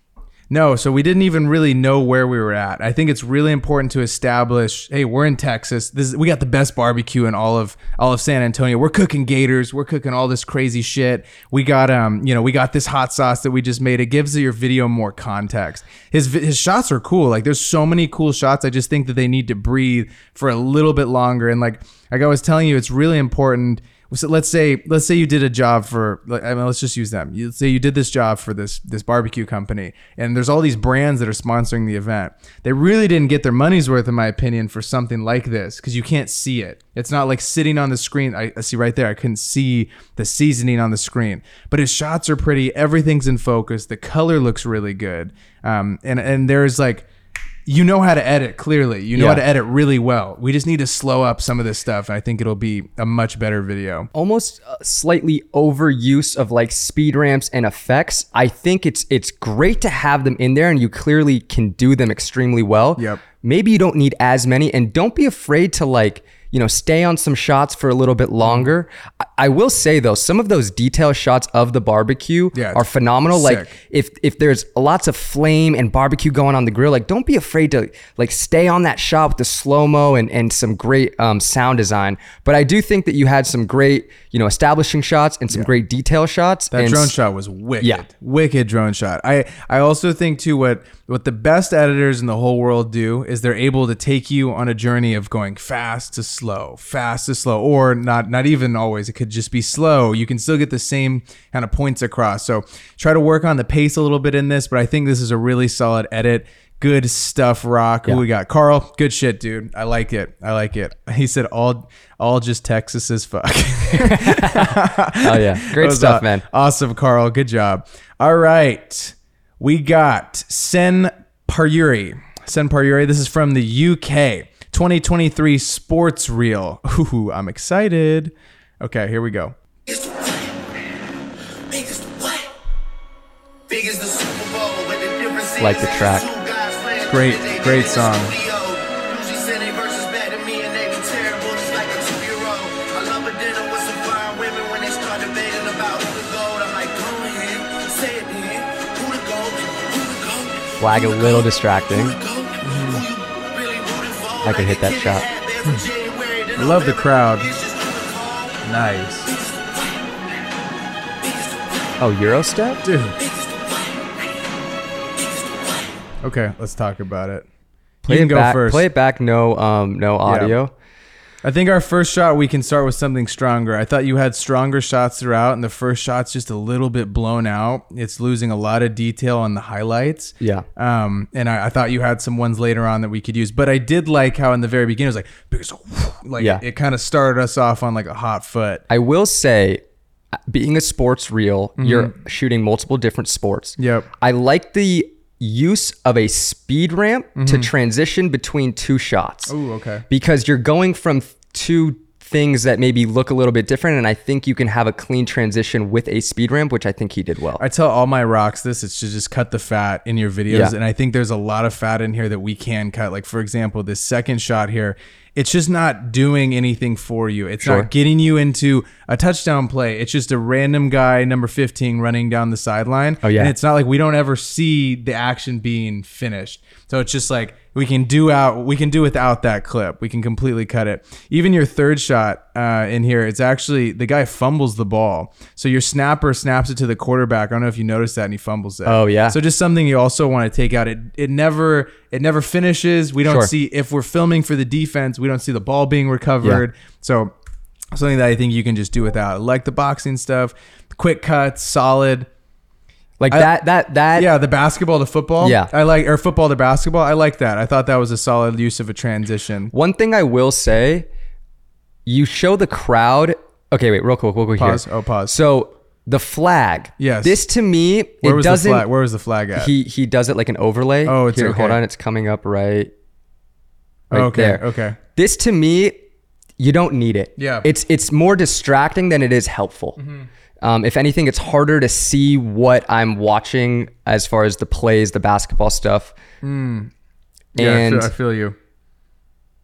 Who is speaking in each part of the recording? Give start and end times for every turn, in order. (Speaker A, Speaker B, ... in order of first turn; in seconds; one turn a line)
Speaker A: 0.5-47.1
Speaker A: 47.7-54.1
Speaker B: 49.1-49.4
Speaker B: 54.1-87.2
Speaker A: 63.0-63.2
Speaker A: 68.4-68.7
Speaker A: 72.5-73.8
Speaker A: 86.7-129.6
Speaker B: 113.9-116.5
Speaker C: 129.9-130.6
Speaker C: 131.7-132.5
Speaker C: 133.7-158.6
Speaker B: 135.6-136.3
Speaker A: 137.1-138.4
Speaker B: 150.8-152.2
Speaker A: 152.6-153.1
Speaker B: 154.4-155.3
Speaker A: 156.6-157.5
Speaker A: 158.6-159.3
Speaker C: 159.2-160.1
Speaker C: 161.2-162.0
Speaker B: 162.0-162.8
Speaker A: 162.8-163.2
Speaker C: 163.2-164.6
Speaker C: 165.2-166.0
Speaker A: 166.2-167.5
Speaker A: 168.1-168.9
Speaker B: 168.1-170.7
Speaker A: 170.2-170.6
Speaker A: 171.4-188.8
Speaker B: 180.4-180.7
Speaker B: 188.9-189.8
Speaker B: 190.5-199.5
Speaker A: 191.8-192.1
Speaker A: 193.8-194.1
Speaker A: 197.4-197.7
Speaker A: 199.5-200.1
Speaker B: 200.1-207.6
Speaker A: 207.6-247.3
Speaker B: 210.5-210.8
Speaker B: 217.6-217.9
Speaker B: 223.2-223.5
Speaker B: 238.8-239.4
Speaker B: 243.2-243.5
Speaker A: 247.9-252.3
Speaker B: 253.2-254.3
Speaker A: 254.2-259.7
Speaker B: 255.4-255.7
Speaker B: 259.7-261.1
Speaker B: 262.1-268.9
Speaker A: 264.6-265.4
Speaker A: 267.0-267.4
Speaker A: 268.2-269.7
Speaker B: 269.6-272.9
Speaker A: 271.1-271.8
Speaker A: 274.1-275.0
Speaker B: 274.1-276.0
Speaker B: 276.6-280.0
Speaker A: 277.4-277.7
Speaker A: 280.0-280.3
Speaker B: 280.6-286.1
Speaker A: 286.4-286.9
Speaker A: 287.6-288.6
Speaker B: 287.6-288.1